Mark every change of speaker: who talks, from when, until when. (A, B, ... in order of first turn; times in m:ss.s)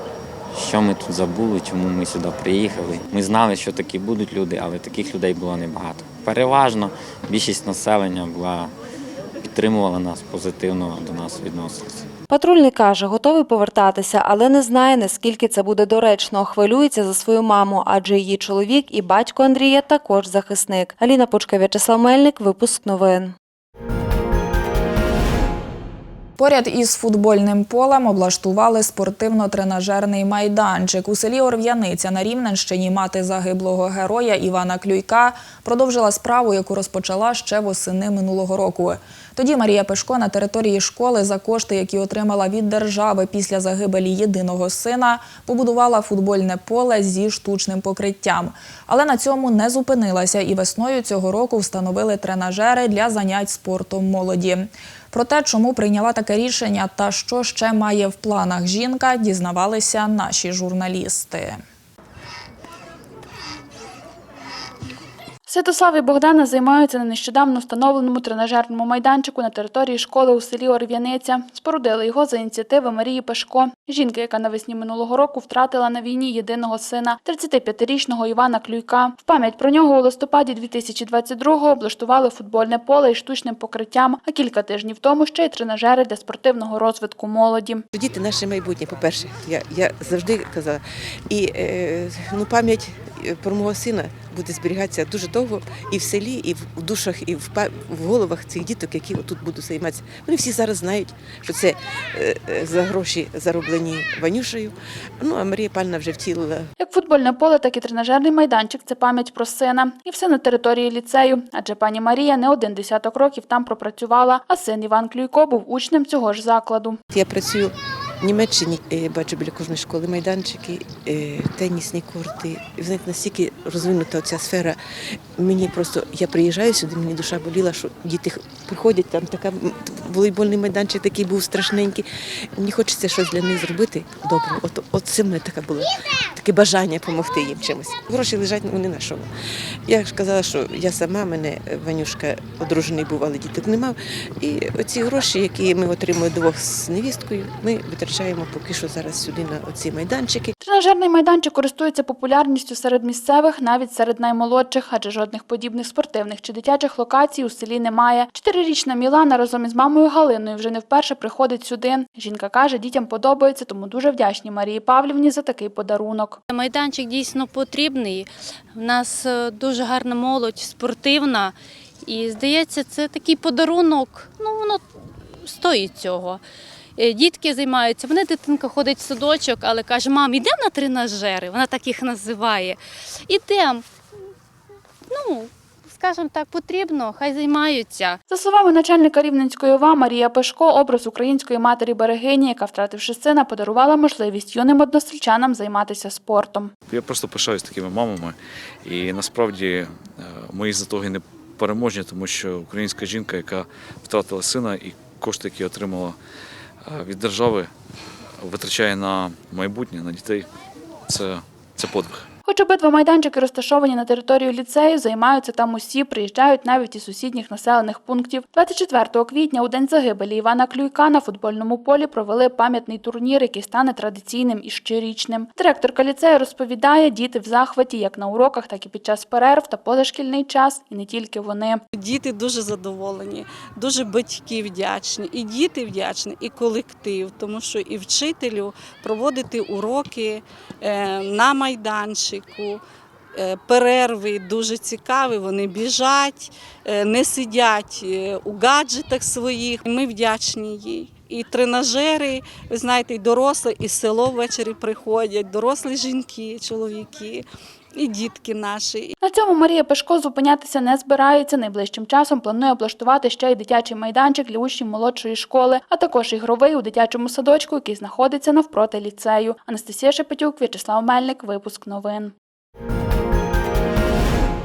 0:00.5-0:08.7 A
0:09.4-0:11.9 A
0:12.3-0:23.3 B
0:26.4-1:01.6 C
1:05.4-1:27.8 D
1:27.9-1:46.7 E
1:46.8-1:57.0 D
1:57.1-2:19.3 E
2:19.8-2:30.5 E
2:30.6-2:46.4 D
2:46.5-2:54.8 F
2:55.4-2:56.4 F
2:57.0-3:03.8 F
3:05.1-3:08.2 F
3:08.3-3:16.7 D
3:16.9-3:26.2 G
3:26.8-3:27.7 G
3:28.4-3:30.4 G
3:31.1-3:32.3 G
3:32.4-3:51.8 D
3:51.9-4:02.8 H
4:03.3-4:19.1 H
4:19.2-4:32.3 D